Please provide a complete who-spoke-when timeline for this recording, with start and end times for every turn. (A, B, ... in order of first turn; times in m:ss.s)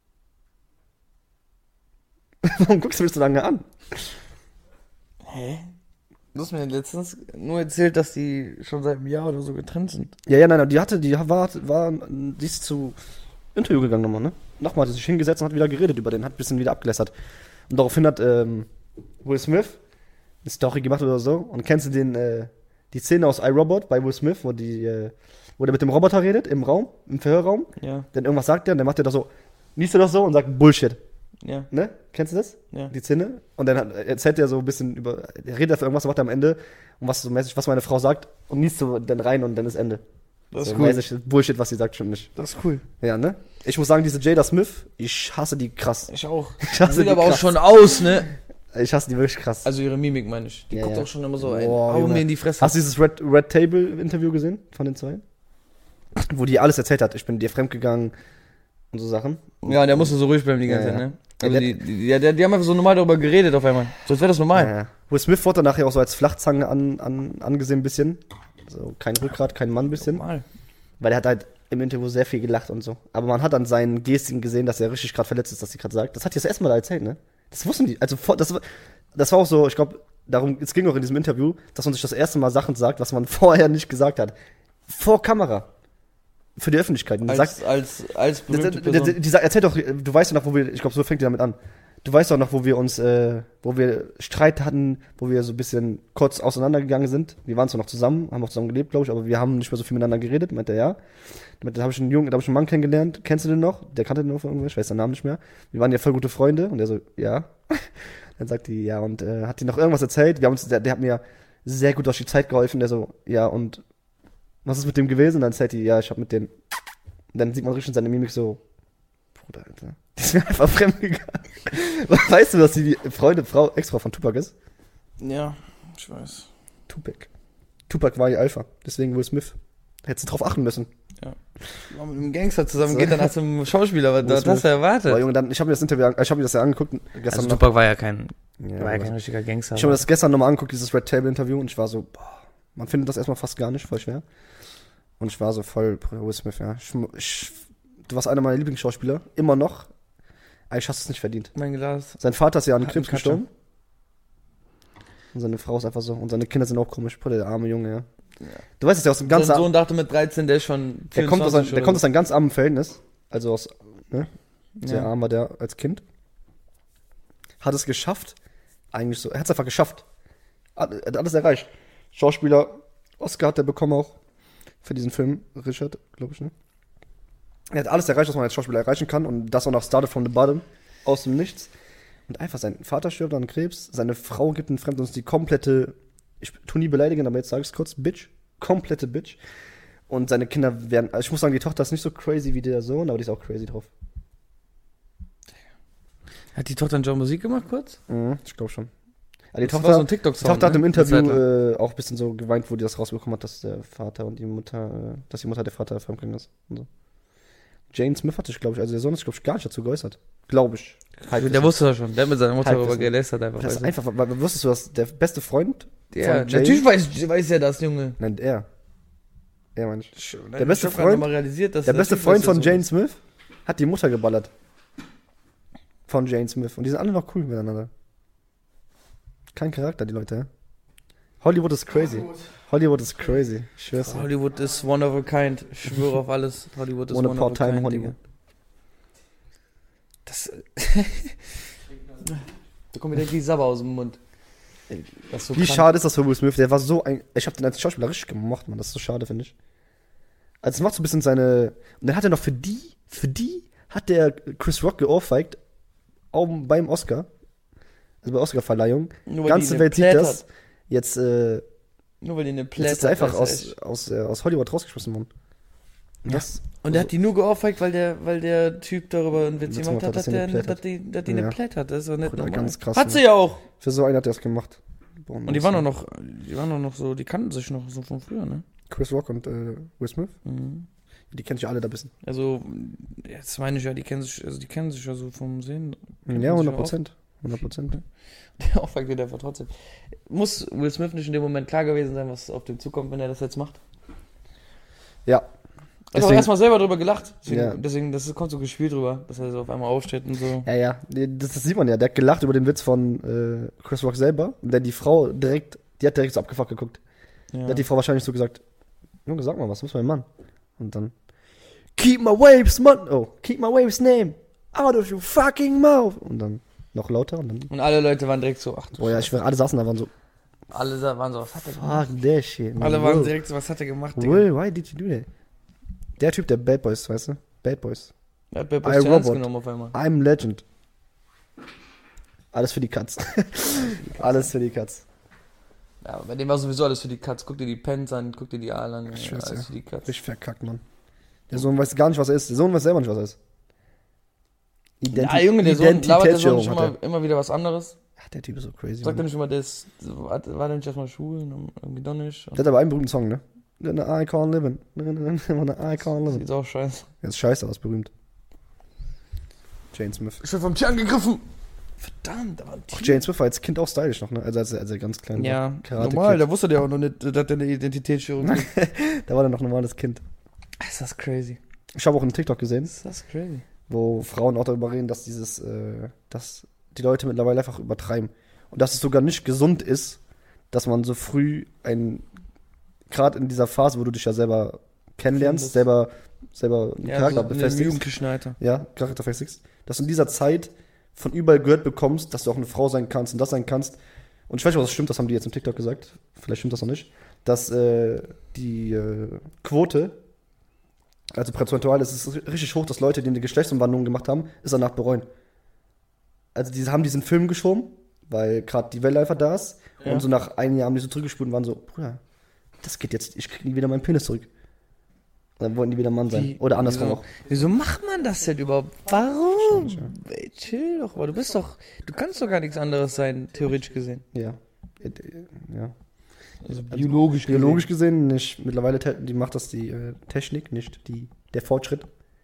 0:02.4-0:04.1 A
0:05.2-0:05.7 B
0:06.3-0:10.1 B
0:10.2-0:13.0 A
0:13.5-0:17.1 A
0:17.7-0:18.7 A
0:19.2-0:19.8 A
0:20.4-0:31.0 A
0:27.8-0:28.1 B
0:31.4-0:31.7 B
0:31.7-0:40.0 A
0:40.5-0:41.0 B
0:40.6-0:42.3 A
0:42.4-0:42.8 B
0:43.0-0:46.1 A
0:46.1-0:48.3 B
0:46.6-0:47.6 A
0:48.7-0:49.7 A
0:49.6-0:52.8 B
0:50.7-0:55.2 A
0:56.2-0:58.1 A
0:58.9-1:00.1 A
0:59.6-1:04.7 B
1:00.6-1:01.8 A
1:04.5-1:10.2 A
1:10.0-1:10.4 B
1:11.0-1:24.3 A
1:24.9-1:25.7 A
1:26.6-1:27.6 A
1:27.2-1:29.2 B
1:28.5-1:41.0 A
1:41.6-1:53.8 A
1:54.6-1:56.5 A
1:57.3-1:58.6 A
1:59.4-2:04.5 A
2:05.2-2:06.5 B
2:06.9-2:07.3 A
2:07.9-2:10.9 A
2:11.9-2:15.2 B
2:12.8-2:13.3 A
2:14.2-2:17.6 A
2:17.3-2:20.0 B
2:18.6-2:19.1 A
2:19.7-2:24.2 A
2:25.2-2:29.9 A
2:30.7-2:31.5 A
2:31.5-2:32.2 B
2:32.2-2:33.5 A
2:32.8-2:33.4 B
2:35.3-2:38.1 A
2:38.8-2:39.7 A
2:39.3-2:42.0 B
2:41.1-2:44.3 A
2:44.8-2:45.1 B
2:44.8-2:46.0 A
2:47.6-2:48.4 A
2:48.9-2:50.0 A
2:50.8-2:54.2 A
2:54.8-2:56.5 A
2:57.7-3:01.7 A
3:02.3-3:09.4 A
3:10.1-3:13.9 A
3:16.5-3:18.0 B
3:18.1-3:18.9 A
3:19.5-3:26.9 A
3:19.6-3:21.4 B
3:27.9-3:31.8 A
3:31.3-3:33.9 B
3:32.6-3:36.9 A
3:36.1-3:38.2 B
3:38.2-3:38.6 A
3:39.8-3:41.3 A
3:40.1-3:42.8 B
3:41.8-3:44.5 A
3:46.1-3:47.9 A
3:49.5-3:50.5 A
3:51.4-3:54.2 A
3:53.9-3:58.2 B
3:57.1-3:58.1 A
4:00.2-4:01.5 B
4:02.9-4:04.2 B
4:05.2-4:05.9 B
4:05.5-4:09.5 A
4:10.6-4:15.6 A
4:16.3-4:17.3 A
4:18.2-4:21.6 A
4:19.3-4:20.4 B
4:22.2-4:23.7 B
4:22.8-4:25.3 A
4:26.2-4:27.1 A
4:26.3-4:33.6 B
4:29.6-4:31.6 A
4:32.2-4:33.2 A
4:33.8-4:35.8 A
4:35.4-4:38.6 B
4:38.9-4:40.3 A
4:40.4-4:40.9 B
4:41.3-4:42.1 A
4:42.2-4:47.0 B
4:46.3-4:48.0 A
4:48.6-4:49.7 B
4:50.2-4:53.8 B
4:56.1-5:00.7 B
4:56.1-4:56.5 A
4:57.5-4:57.8 A
5:00.6-5:07.0 A
5:07.5-5:07.8 B
5:07.6-5:08.6 A
5:09.2-5:10.2 A
5:10.8-5:11.1 A
5:11.9-5:17.7 A
5:17.7-5:19.3 B
5:19.0-5:20.1 A
5:20.7-5:22.0 B
5:21.6-5:23.4 A
5:22.8-5:24.5 B
5:24.2-5:25.3 A
5:26.2-5:28.1 A
5:28.5-5:30.0 B
5:28.8-5:30.6 A
5:32.5-5:35.0 A
5:36.0-5:40.1 B
5:39.1-5:40.8 A
5:41.5-5:43.4 A
5:45.0-5:46.9 A
5:45.1-5:48.0 B
5:48.2-5:49.2 A
5:49.0-5:52.6 B
5:52.6-5:56.4 A
5:56.2-5:57.1 B
5:57.2-5:58.1 A
5:59.9-6:00.4 A
6:00.4-6:01.4 B
6:02.0-6:03.2 B
6:02.9-6:06.4 A
6:05.3-6:08.7 B
6:08.4-6:10.2 A
6:10.8-6:11.6 B
6:11.9-6:12.9 A
6:12.9-6:13.6 B
6:13.9-6:20.2 A
6:20.7-6:22.2 A
6:23.1-6:28.0 A
6:25.3-6:25.8 B
6:27.0-6:28.6 B
6:28.6-6:34.0 A
6:34.5-6:40.2 A
6:41.3-6:45.2 A
6:46.5-6:52.2 A
6:50.0-6:50.2 B
6:52.8-6:54.5 A
6:55.6-6:57.2 A
6:56.3-7:04.2 B
6:59.7-7:00.1 A
7:04.3-7:05.9 A
7:06.6-7:07.9 B
7:06.9-7:12.1 A